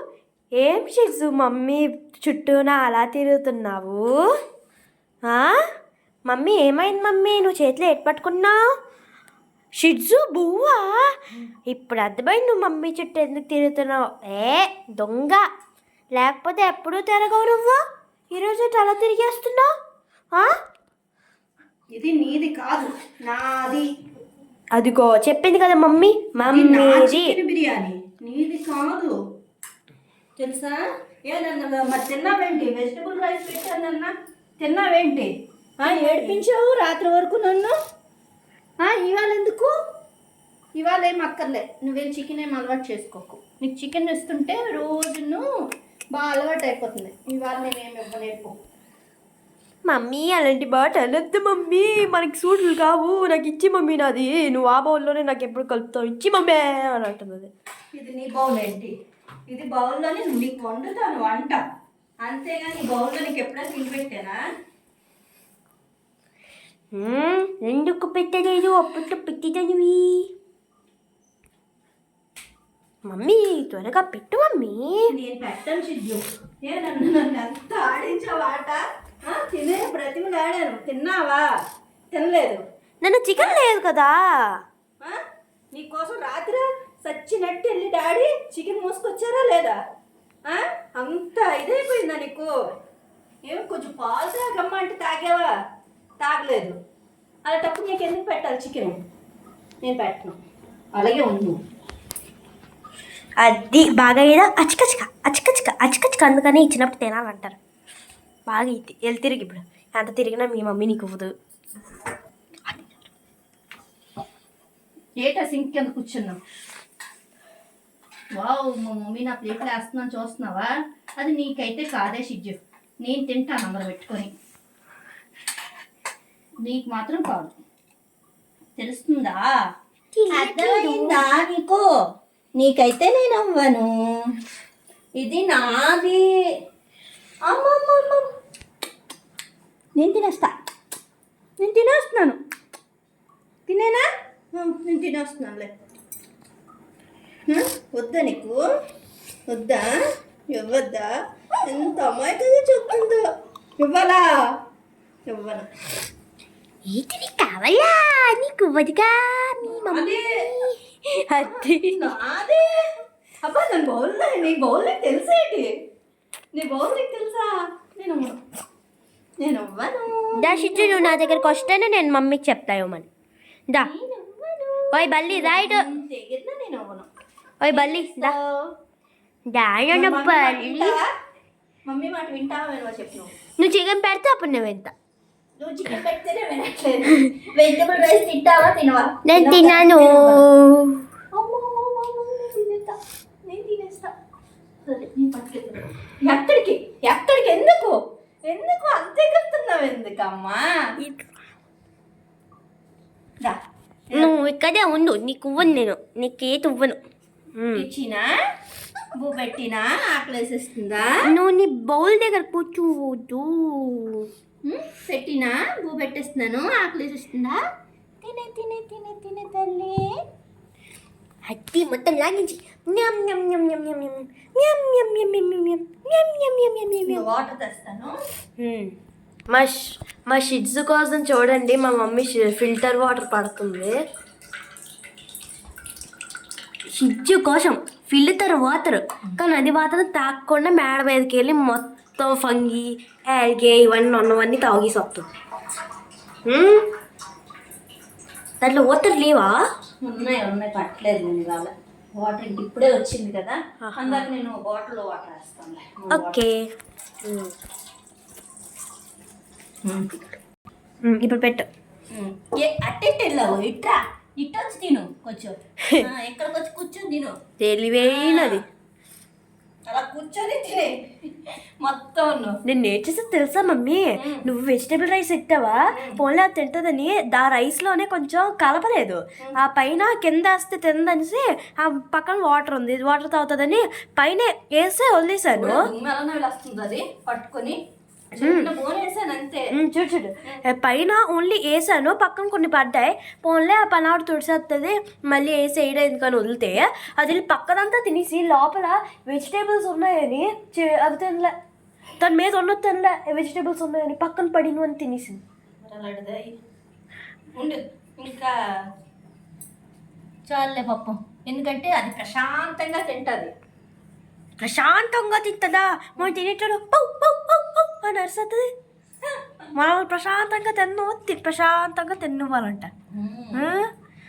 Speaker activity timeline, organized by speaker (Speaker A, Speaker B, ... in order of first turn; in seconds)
Speaker A: 0.6-4.1, 5.3-5.5, 6.3-8.6, 9.8-11.1, 11.7-15.4, 16.1-17.8, 18.3-19.7, 24.8-27.4, 35.9-36.4, 49.9-57.5, 66.9-70.3, 73.1-75.1, 83.0-84.5, 103.4-107.6, 108.5-111.3, 130.1-131.3, 156.9-162.1, 170.4-173.1, 174.9-175.8, 177.6-178.4, 179.5-181.0, 183.6-184.9, 189.3-191.0, 201.0-201.3, 204.1-207.0, 207.6-207.9, 211.2-214.3, 221.5-227.3, 228.6-228.9, 229.5-234.0, 236.9-245.3, 246.5-246.8, 248.6-249.6, 253.8-254.3, 256.1-256.6, 257.2-257.5, 261.1-261.7, 267.6-268.6, 272.6-285.9, 288.4-288.7, 289.7-301.5, 302.2-305.4, 314.6-318.7, 319.8-322.9, 323.6-323.9
Speaker B: 21.9-23.9, 26.4-29.2, 30.4-37.7, 38.8-39.7, 40.8-45.4, 46.1-48.5, 57.9-58.9, 59.5-61.6, 62.2-64.4, 75.1-81.5, 82.1-82.6, 85.7-89.8, 90.5-92.5, 93.5-95.5, 96.2-96.8, 97.5-99.0, 99.8-100.4, 101.0-101.6, 115.2-116.4, 118.4-124.3, 126.7-127.6, 128.8-129.5, 130.3-131.8, 132.6-133.9, 135.2-136.3, 137.5-138.3, 140.0-140.6, 141.6-142.4, 143.7-145.7, 147.5-148.6, 149.5-149.9, 150.5-151.1, 151.7-153.2, 153.8-154.3, 155.3-155.7, 159.6-160.3, 161.4-162.7, 163.4-165.7, 166.6-168.4, 169.4-171.6, 173.8-177.1, 177.7-178.6, 179.9-181.1, 181.9-183.3, 185.6-190.5, 191.3-194.1, 194.8-200.7, 203.4-204.3, 207.7-208.3, 209.2-211.2, 214.7-217.6, 218.2-220.1, 227.1-228.2, 250.0-256.4, 259.8-260.1, 262.1-267.4, 268.0-268.6, 269.9-272.6, 274.2-274.4, 275.9-276.2, 285.5-287.8, 288.3-289.7, 305.8-306.6, 307.6-308.5, 310.5-313.5, 323.1-323.7